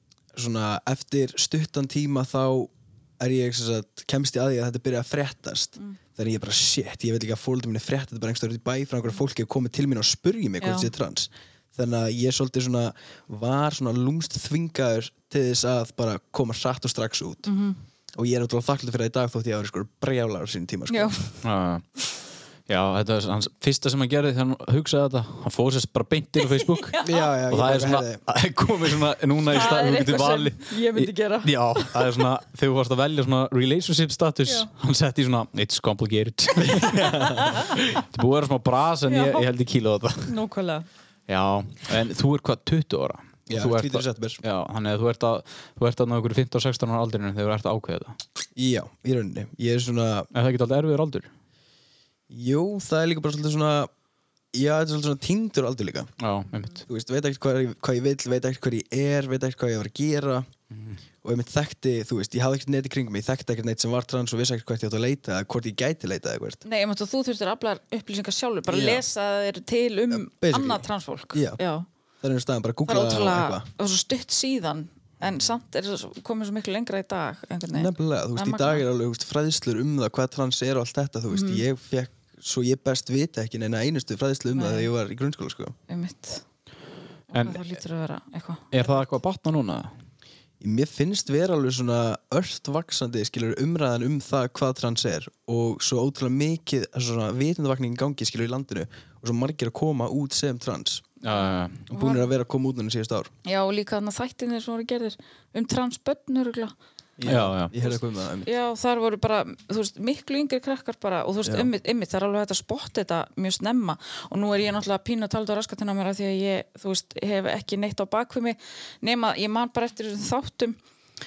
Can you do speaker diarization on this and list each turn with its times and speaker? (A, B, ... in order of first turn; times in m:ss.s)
0:00.3-0:17.5 A
0:10.6-0:10.9 B
0:17.4-0:17.8 B
0:18.2-0:21.1 A
0:20.9-0:21.4 B
0:21.4-0:21.8 C
0:22.7-0:40.3 C
0:26.5-0:27.3 B
0:27.0-0:28.2 A
0:29.5-0:32.2 B
0:36.6-0:37.6 A
0:37.3-0:37.7 B
0:39.1-0:39.4 B
0:40.2-0:40.9 B
0:41.3-0:48.2 C
0:43.5-0:44.4 A
0:48.6-0:50.3 A
0:50.3-0:51.3 C
0:52.3-0:53.9 A
0:54.5-0:56.1 A
0:56.2-0:56.8 C
0:56.9-1:00.5 A
1:00.7-1:01.0 C
1:01.2-1:06.6 A
1:06.6-1:11.8 B
1:08.7-1:09.0 A
1:10.1-1:11.6 A
1:12.2-1:13.7 A
1:12.8-1:18.8 B
1:17.7-1:25.7 A
1:21.3-1:21.6 B
1:24.5-1:24.9 B
1:25.9-1:26.4 B
1:27.3-1:29.1 B
1:27.3-1:27.6 C
1:28.7-1:29.9 C
1:30.6-1:41.1 A
1:41.2-1:41.9 C
1:41.3-1:42.2 B
1:41.9-1:43.3 A
1:43.4-1:46.7 B
1:47.2-1:48.5 A
1:47.2-1:47.7 C
1:48.4-2:00.8 B